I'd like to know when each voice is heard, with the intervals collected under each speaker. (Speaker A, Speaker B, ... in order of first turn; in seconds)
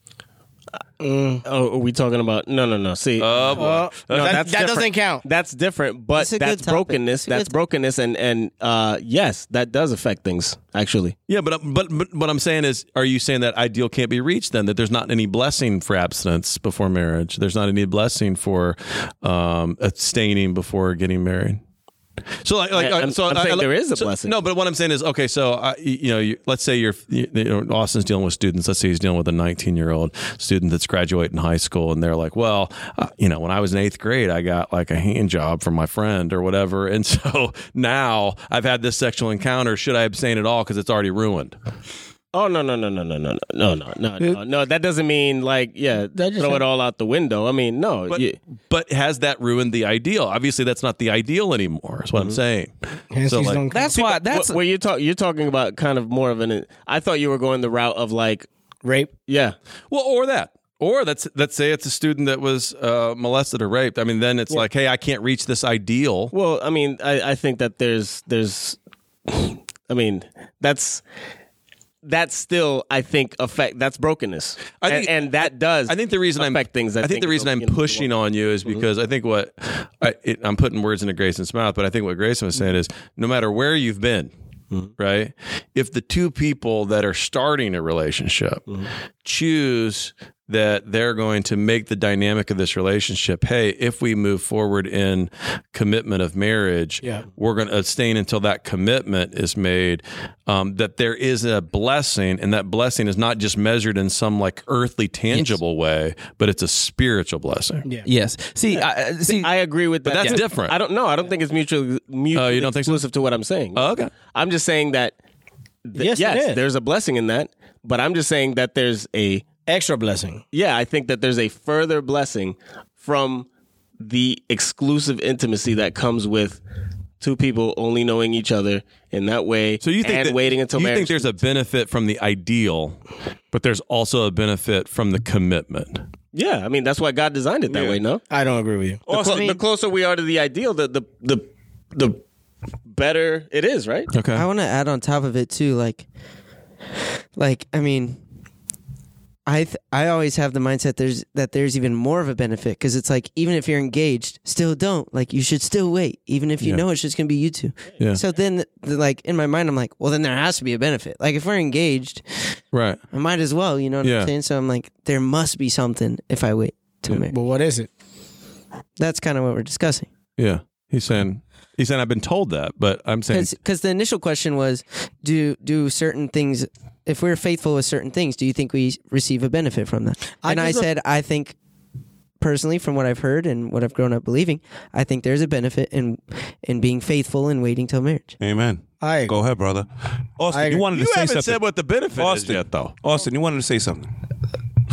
Speaker A: 1.0-1.4, 3.6-5.2, 46.1-46.6, 53.1-54.2, 58.8-59.1, 116.0-116.6, 119.7-120.4, 137.7-139.1, 167.3-167.9, 180.4-180.9, 189.0-189.3, 190.5-190.8
Speaker B: 1.4-11.2, 22.8-24.4, 42.3-48.4, 54.0-58.5, 59.3-59.6, 66.3-71.0, 72.0-78.8, 108.7-115.2, 115.8-119.5, 120.5-123.5, 124.0-126.6, 127.2-131.4, 136.3-138.2, 139.1-142.2, 142.9-144.1
Speaker C: 3.2-4.5, 11.3-21.6, 22.4-41.6, 48.1-52.7, 53.2-53.6, 59.9-66.3, 74.8-84.3, 85.0-88.7, 89.2-107.9, 110.0-110.8, 112.3-113.0, 113.7-114.1, 129.8-133.0, 133.5-136.0, 144.1-144.4, 162.7-163.0, 164.0-164.3, 170.4-173.5, 190.9-192.9
Speaker D: 6.2-7.5, 139.1-139.6, 144.3-146.1, 147.4-148.2, 149.5-162.5, 163.1-167.4, 169.0-170.1, 173.3-181.6, 182.4-188.4
Speaker E: 53.7-54.6, 108.0-109.5
Speaker F: 188.4-191.6, 192.1-194.1